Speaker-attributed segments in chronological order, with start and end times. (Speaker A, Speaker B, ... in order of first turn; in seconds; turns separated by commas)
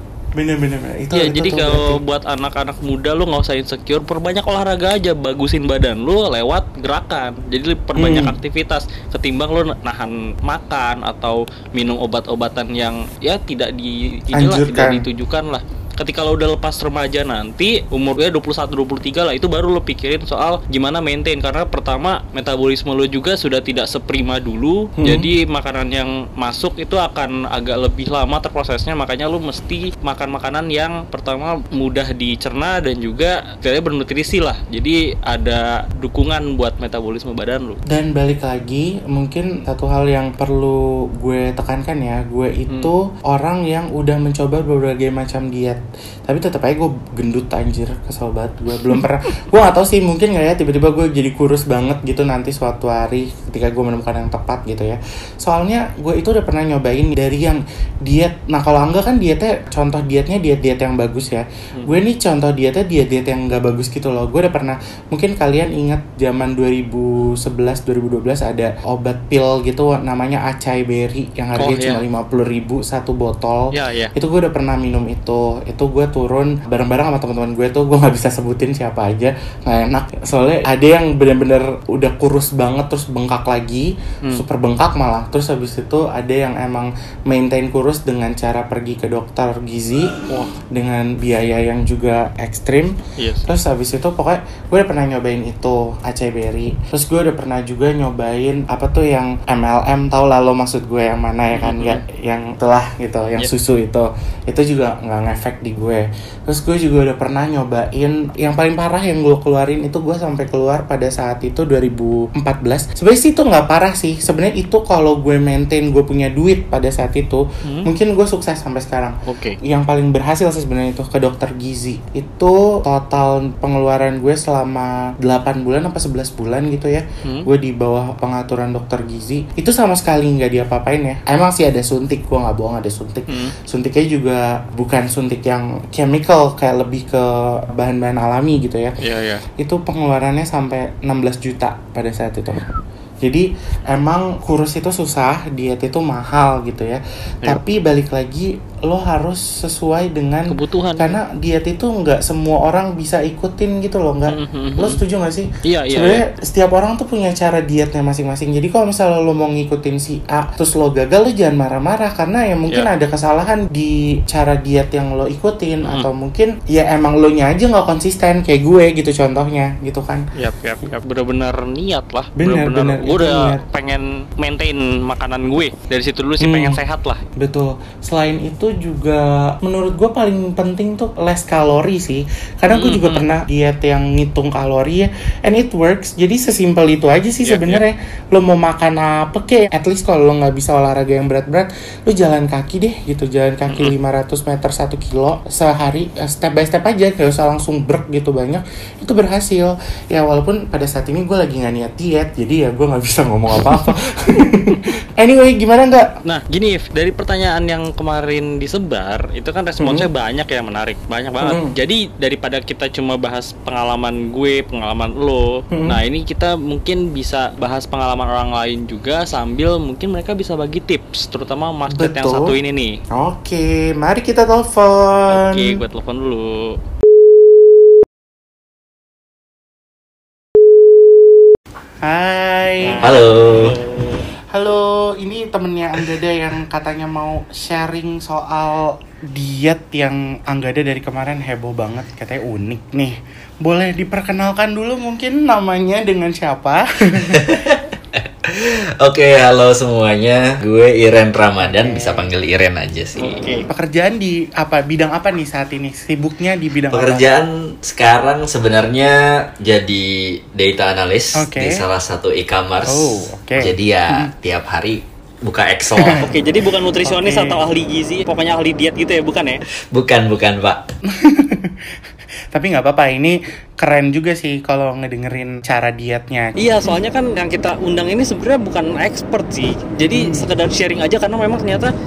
Speaker A: 0.3-2.0, Speaker B: 1.1-37.8, Speaker A: 8.0-8.3, Speaker A: 14.3-15.1, Speaker A: 25.0-25.3, Speaker A: 37.9-93.0, Speaker B: 71.6-72.0, Speaker B: 73.7-74.1, Speaker B: 93.2-93.5, Speaker A: 93.5-139.0, Speaker B: 101.5-102.0, Speaker B: 117.6-117.9, Speaker B: 119.2-119.6, Speaker B: 133.3-133.5, Speaker B: 139.0-139.4, Speaker A: 139.6-142.6, Speaker A: 143.2-170.2, Speaker B: 150.5-151.2, Speaker B: 154.3-155.0, Speaker B: 155.6-156.2, Speaker B: 165.8-166.1, Speaker B: 170.3-177.2, Speaker A: 172.4-173.6, Speaker A: 176.4-176.8, Speaker A: 177.4-206.1, Speaker B: 182.7-183.2, Speaker B: 187.4-187.8, Speaker B: 193.7-193.9, Speaker B: 206.2-222.9, Speaker A: 209.8-210.1, Speaker A: 211.4-211.7, Speaker A: 221.9-222.5, Speaker A: 223.1-225.7, Speaker B: 225.3-226.5, Speaker A: 232.0-233.1, Speaker B: 232.8-234.2, Speaker C: 233.0-233.7, Speaker A: 234.5-247.5, Speaker C: 247.2-253.4, Speaker A: 251.6-252.3, Speaker B: 253.2-253.7, Speaker A: 253.7-257.2, Speaker C: 256.9-266.3, Speaker A: 261.4-261.8, Speaker A: 262.9-264.3, Speaker A: 265.9-266.3, Speaker B: 266.2-269.6, Speaker A: 267.0-267.6, Speaker C: 269.9-270.8, Speaker A: 271.1-271.9, Speaker A: 272.5-277.0, Speaker B: 276.6-281.9, Speaker A: 280.1-280.5